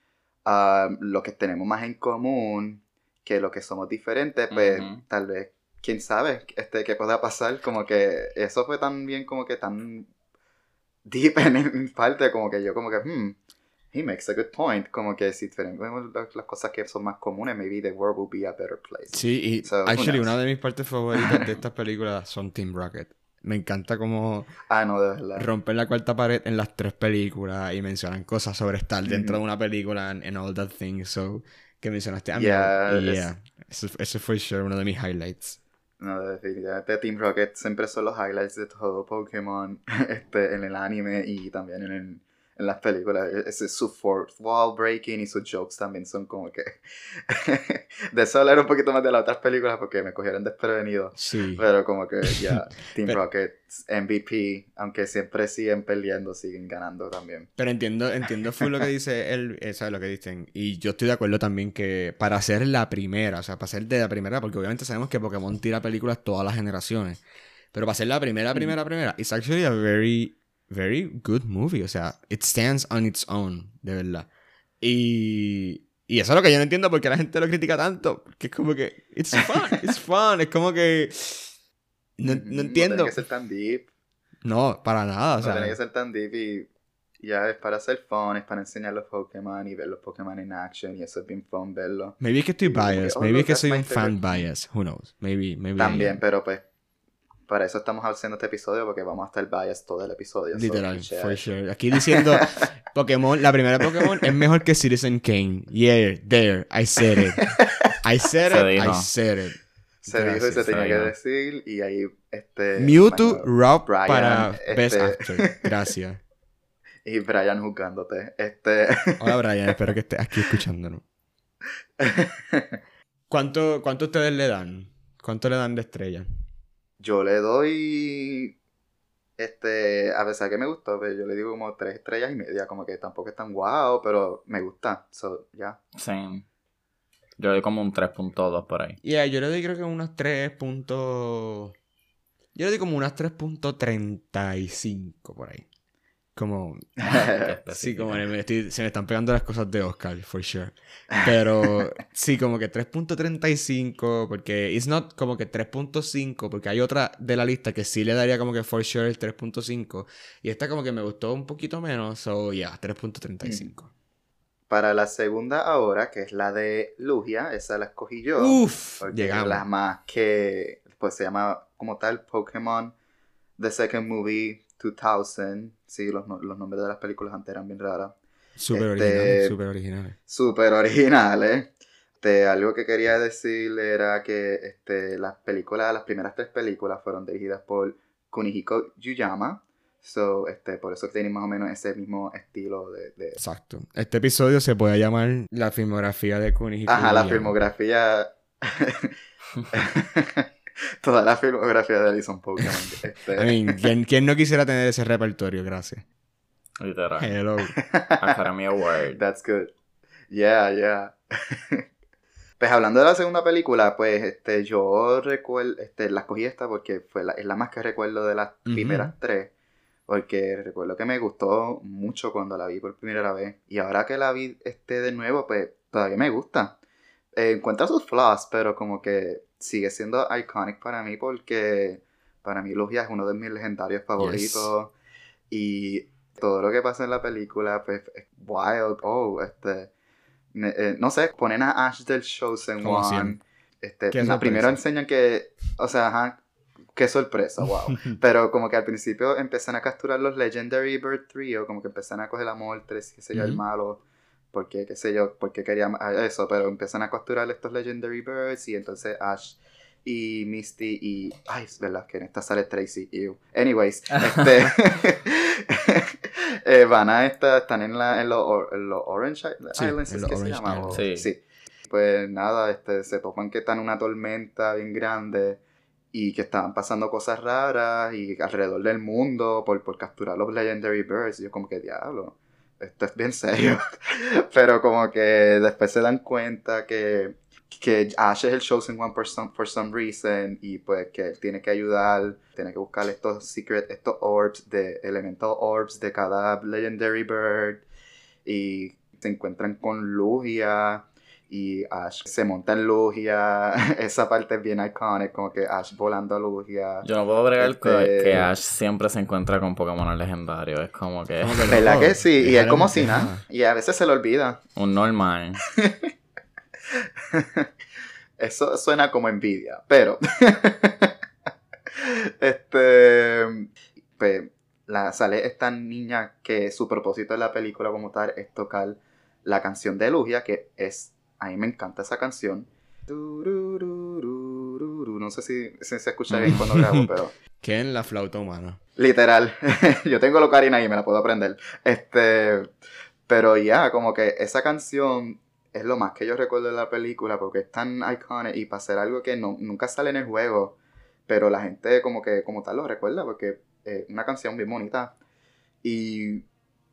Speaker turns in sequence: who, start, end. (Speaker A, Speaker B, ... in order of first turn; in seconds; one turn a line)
Speaker A: 0.5-10.1
Speaker B: 4.5-5.0
Speaker A: 11.1-13.4
Speaker A: 13.9-20.3
Speaker C: 19.1-24.5
Speaker A: 21.1-21.5
Speaker A: 24.7-25.5
Speaker C: 25.4-35.6
Speaker A: 29.1-29.4
Speaker A: 32.4-33.3
Speaker A: 36.0-57.5
Speaker C: 51.2-51.6
Speaker C: 57.6-67.2
Speaker C: 67.7-74.3
Speaker C: 74.8-81.5
Speaker C: 82.2-83.2
Speaker A: 82.3-83.9
Speaker C: 84.4-85.8
Speaker A: 85.4-86.7
Speaker A: 87.2-94.2
Speaker C: 92.2-96.2
Speaker A: 95.8-96.6
Speaker A: 97.5-101.4
Speaker C: 100.5-107.5
Speaker A: 102.1-102.5
Speaker A: 104.0-104.3
Speaker A: 107.2-107.7
Speaker C: 108.0-111.1
Speaker B: 108.5-109.1
Speaker A: 110.0-115.7
Speaker B: 110.7-111.1
Speaker C: 112.8-116.2
Speaker A: 117.1-119.9
Speaker C: 119.2-121.0
Speaker A: 122.0-122.8
Speaker C: 123.3-126.3
Speaker A: 127.0-128.5
Speaker A: 129.4-135.8
Speaker B: 136.0-136.5
Speaker B: 137.4-139.0
Speaker C: 139.0-141.8
Speaker C: 142.6-145.7
Speaker C: 146.4-147.2
Speaker A: 147.0-147.5
Speaker B: 147.4-148.2
Speaker C: 147.7-163.9
Speaker A: 151.1-151.7
Speaker A: 163.4-163.7
Speaker A: 164.7-172.9
Speaker C: 168.4-169.7
Speaker A: 173.6-178.2
Speaker C: 178.6-180.2
Speaker A: 178.7-179.6
Speaker A: 180.3-193.4
Speaker C: 193.4-197.6
Speaker A: 196.9-199.2
Speaker A: 199.7-200.5
Speaker A: 201.0-203.9
Speaker C: 203.3-206.0
Speaker B: 206.8-207.4
Speaker C: 207.2-207.8
Speaker A: 207.7-208.4
Speaker B: 208.2-209.2
Speaker A: 209.2-209.7
Speaker A: 210.3-211.8
Speaker A: 212.6-219.5
Speaker C: 218.7-219.1
Speaker A: 220.1-226.8
Speaker A: 227.3-234.9
Speaker C: 234.2-234.7
Speaker A: 235.5-239.9
Speaker A: 240.5-246.4
Speaker C: 242.8-243.4
Speaker C: 244.1-244.8
Speaker A: 246.9-254.0
Speaker C: 253.3-253.6
Speaker A: 254.5-275.6
Speaker C: 269.8-271.0
Speaker B: 270.9-271.3
Speaker A: 276.1-297.8
Speaker A: 298.4-307.1
Speaker B: 307.0-311.7
Speaker A: 307.6-308.5
Speaker C: 311.4-313.4
Speaker A: 311.7-314.6
Speaker B: 314.8-315.6
Speaker A: 315.8-316.1
Speaker A: 317.3-317.7
Speaker A: 318.4-321.1
Speaker A: 321.9-337.3
Speaker C: 336.3-338.8
Speaker A: 339.0-342.7
Speaker A: 343.3-355.1
Speaker A: 355.8-356.5